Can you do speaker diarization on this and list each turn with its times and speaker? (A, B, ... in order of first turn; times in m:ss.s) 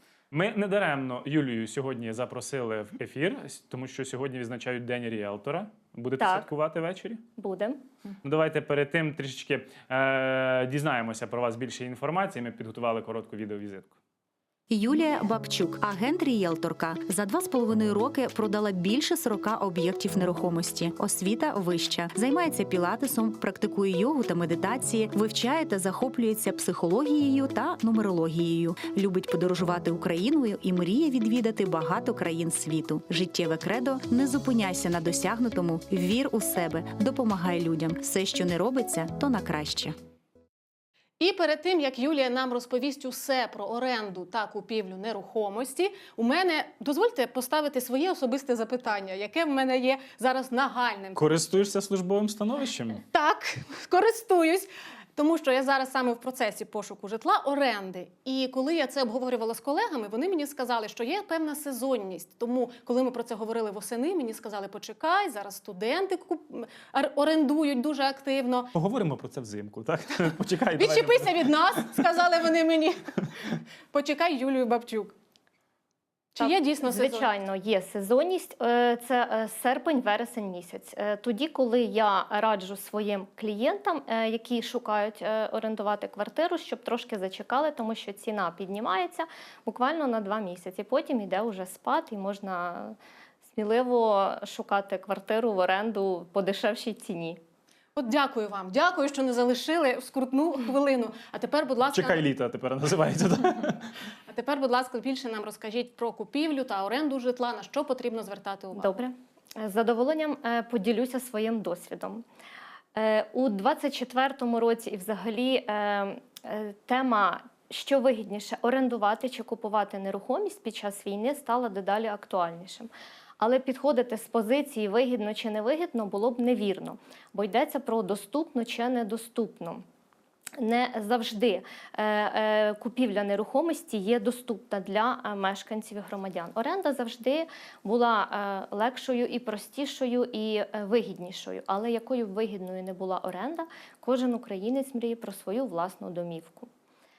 0:00.3-0:07.2 A
0:06.2-0:06.5 B
0:07.4-0:07.8 B
0:08.2-0:13.9 A
0:14.7-0:40.0 C
0:41.2-0:51.2 D
0:51.2-0:53.0 A
0:53.1-1:08.7 D
1:08.7-1:11.9 A
1:10.8-1:13.1 D
1:13.9-1:15.2 D
1:16.4-1:17.3 D
1:16.4-1:33.0 B
1:33.6-1:37.4 B
1:38.0-1:42.2 D
1:41.9-1:43.9 A
1:44.3-1:49.0 D
1:48.8-1:52.2 B
1:53.0-2:09.8 B
2:10.6-2:26.7 B